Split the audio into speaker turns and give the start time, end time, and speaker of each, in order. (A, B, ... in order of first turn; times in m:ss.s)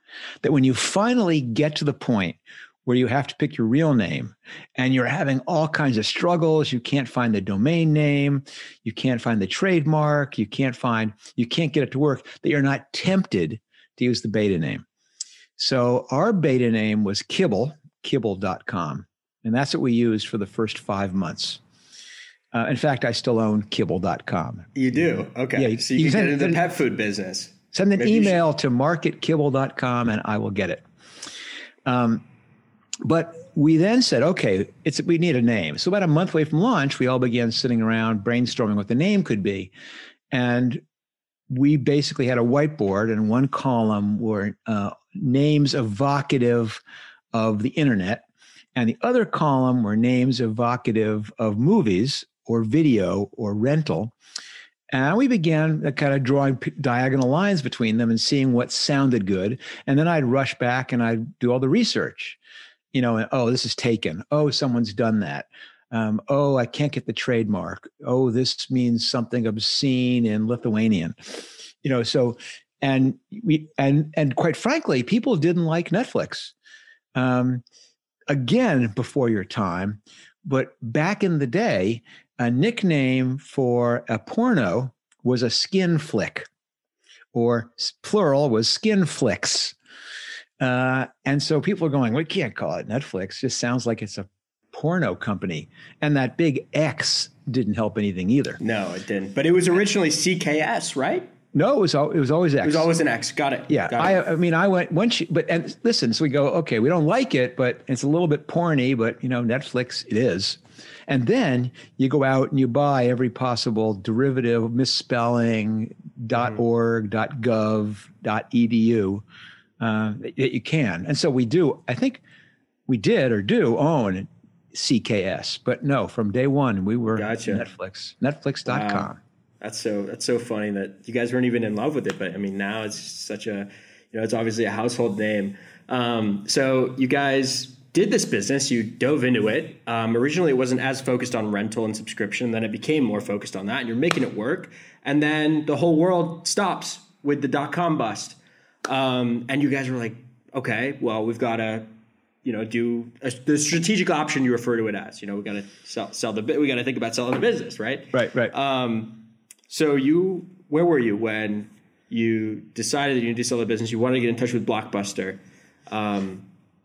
0:00.4-0:14.8 A
0:15.6-0:21.6 A
0:22.5-0:24.8 A
0:24.7-0:28.4 B
0:25.5-0:26.6 A
0:27.7-0:30.8 A
0:31.8-0:32.2 A
0:33.0-0:39.7 A
0:40.3-0:40.8 A
0:41.5-0:46.8 A
0:47.3-0:54.1 A
0:54.9-1:02.4 A
1:02.9-1:16.5 A
1:17.1-1:17.6 A
1:18.3-1:26.5 A
1:27.3-1:29.8 A
1:30.6-1:38.6 A
1:38.6-1:41.3 B
1:41.5-1:42.9 A
1:42.6-1:44.2 B
1:43.7-1:59.2 A
1:59.8-2:02.2 A
2:02.9-2:09.2 A
2:07.1-2:07.6 B
2:08.7-2:09.1 B
2:09.6-2:31.9 B
2:32.4-2:46.5 B
2:38.1-2:38.5 A